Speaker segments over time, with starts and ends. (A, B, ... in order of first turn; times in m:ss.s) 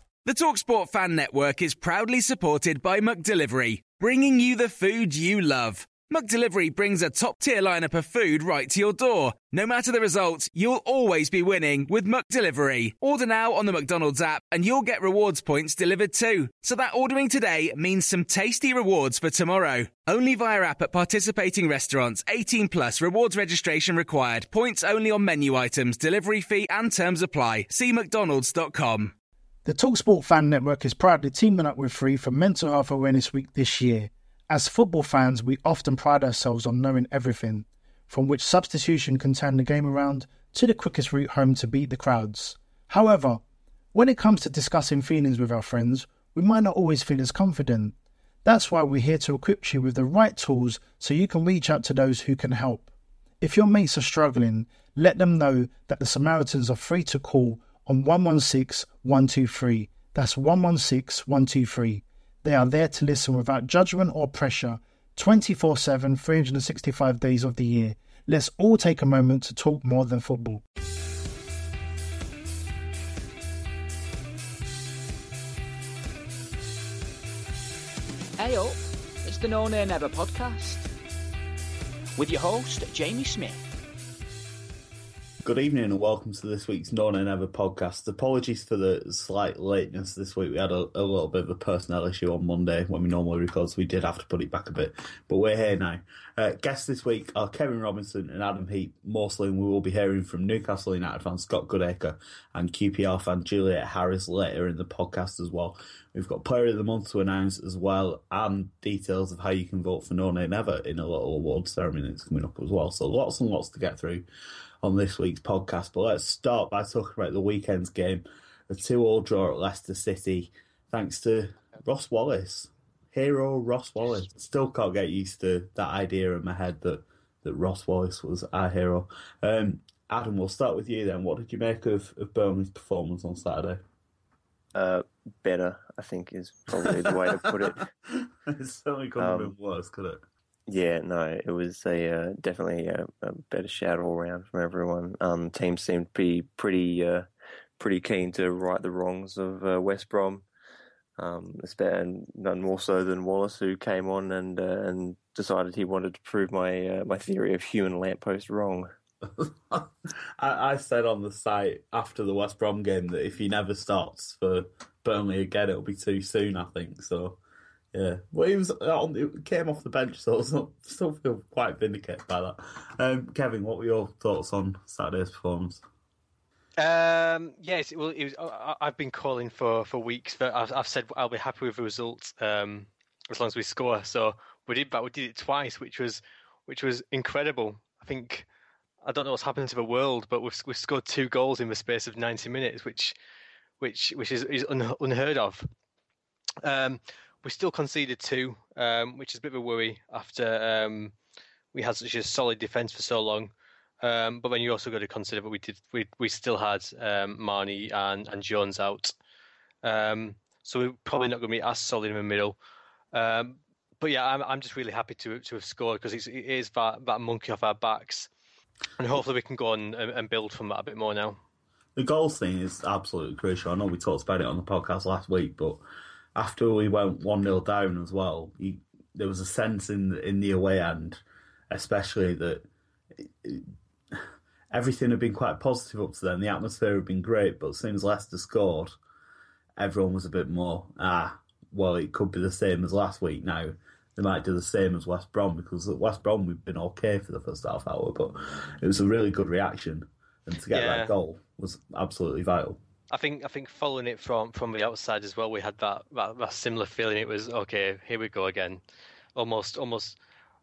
0:00.2-0:29.1 A
0:29.6-0:43.4 B
0:43.9-0:52.8 B
0:53.4-1:10.6 B
1:18.4-1:20.9 C
1:22.2-1:23.6 C
1:25.4-1:54.2 D
1:54.8-2:13.8 D
2:14.7-2:17.9 E
2:18.1-2:20.2 D
2:19.2-2:19.5 E
2:20.7-2:27.2 E
2:27.8-2:30.4 E
2:31.2-2:38.9 E
2:39.4-2:47.4 D
2:47.9-2:55.8 D
2:56.8-3:08.5 F
3:09.0-3:13.1 F
3:13.8-3:15.7 F
3:16.6-3:21.1 F
3:21.7-3:29.1 F
3:29.8-3:32.6 F
3:33.1-3:38.3 F
3:39.0-3:41.4 F
3:41.9-3:45.8 D
3:46.3-3:52.6 D
3:53.2-3:53.6 D
3:54.7-3:59.0 D
3:59.8-4:12.8 D
4:10.7-4:11.1 F
4:13.1-4:18.8 F
4:19.4-4:20.2 F